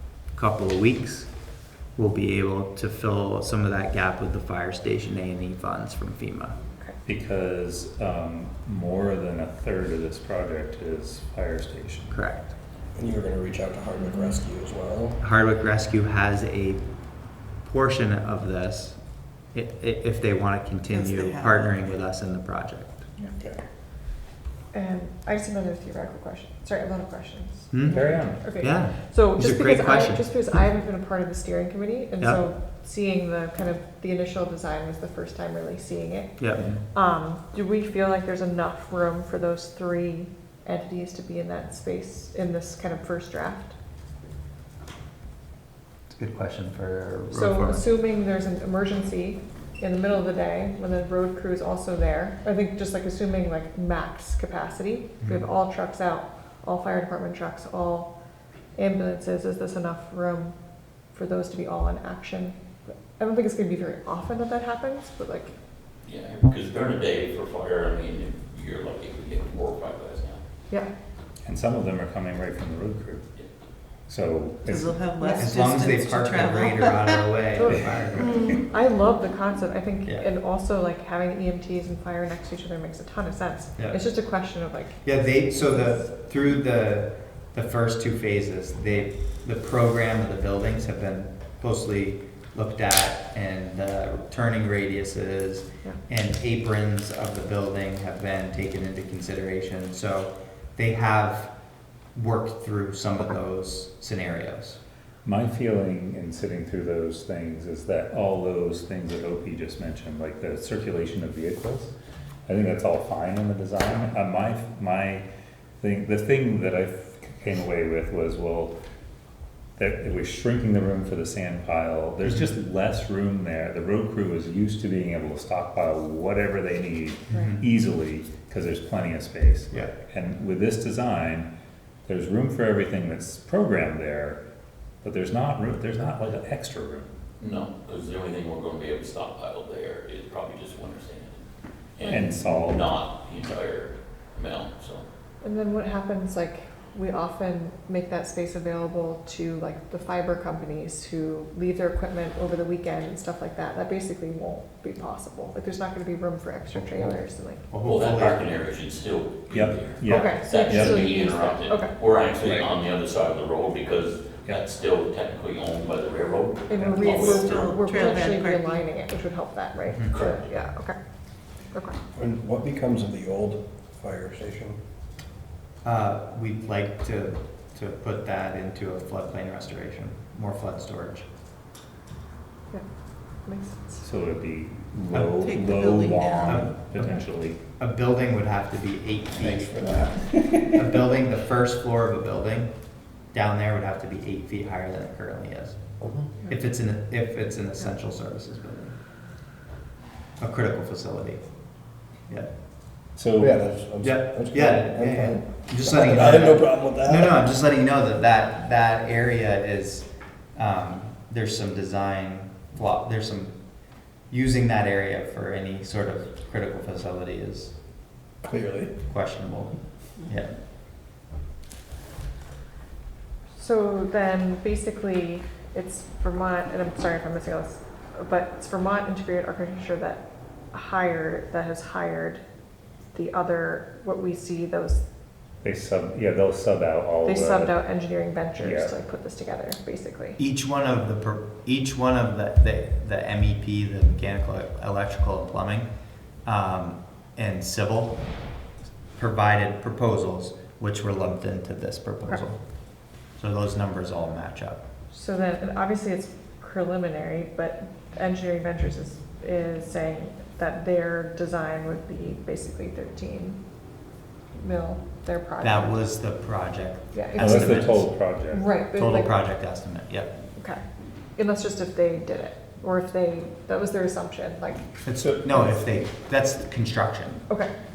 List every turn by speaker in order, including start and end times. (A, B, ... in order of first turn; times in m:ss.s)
0:00.4-0:01.3 A
0:02.0-0:06.6 A
0:07.1-0:12.2 B
0:12.1-0:12.5 A
0:13.0-0:15.2 C
0:15.2-0:16.8 A
0:17.6-0:19.0 A
0:19.5-0:23.0 A
0:20.9-0:21.8 D
0:24.7-0:43.8 E
0:27.7-0:30.3 A
0:27.9-0:28.4 B
0:36.4-0:36.7 A
0:46.1-0:47.8 A
0:47.3-0:58.1 E
0:58.8-1:00.6 E
1:01.1-1:05.5 E
1:06.0-1:10.4 F
1:11.5-1:13.3 B
1:14.1-1:15.0 B
1:14.7-1:17.3 D
1:15.2-1:18.5 A
1:17.6-1:26.0 E
1:18.2-1:18.6 D
1:25.0-1:41.5 A
1:42.2-1:44.8 A
1:45.2-1:51.9 B
1:52.5-1:55.2 B
1:55.8-1:58.7 B
1:59.8-2:11.5 B
2:07.3-2:07.6 A
2:12.1-2:14.4 B
2:15.0-2:17.1 B
2:17.4-2:21.4 F
2:22.0-2:25.0 F
2:22.0-2:22.6 E
2:22.0-2:22.9 B
2:25.4-2:37.6 E
2:37.7-2:38.5 A
2:37.8-2:47.7 F
2:39.5-2:41.1 B
2:40.1-2:41.9 E
2:46.7-2:51.0 E
2:47.0-2:48.9 D
2:49.9-2:50.3 A
2:50.1-2:50.5 F
2:51.7-2:52.0 E
2:52.2-2:54.8 C
2:55.8-3:01.2 A
3:03.5-3:04.0 E
3:04.0-3:07.6 B
3:05.4-3:06.6 D
3:06.4-3:07.1 A
3:07.8-3:09.8 A
3:09.4-3:10.3 C
3:10.7-3:12.7 A
3:13.3-3:15.8 A
3:16.0-3:16.4 C
3:16.5-3:18.9 A
3:20.4-3:21.4 A
3:23.2-3:23.6 B
3:23.4-3:27.5 C
3:24.0-3:33.5 A
3:34.3-3:37.7 A
3:38.4-3:38.9 C
3:39.1-3:40.6 A
3:43.6-3:52.4 E
3:53.1-3:55.0 E
3:55.6-3:57.8 B
3:57.2-4:00.4 E
3:58.6-3:58.9 B
4:00.4-4:05.9 A
4:06.4-4:08.2 A
4:09.2-4:12.6 A
4:13.4-4:14.8 A
4:15.1-4:23.6 E
4:24.6-4:26.0 E
4:25.6-4:28.1 A
4:27.1-4:27.7 E
4:27.4-4:28.6 B
4:28.5-4:29.3 E
4:28.9-4:30.3 A
4:30.6-4:30.8 E
4:31.4-4:34.8 E
4:35.0-4:37.4 A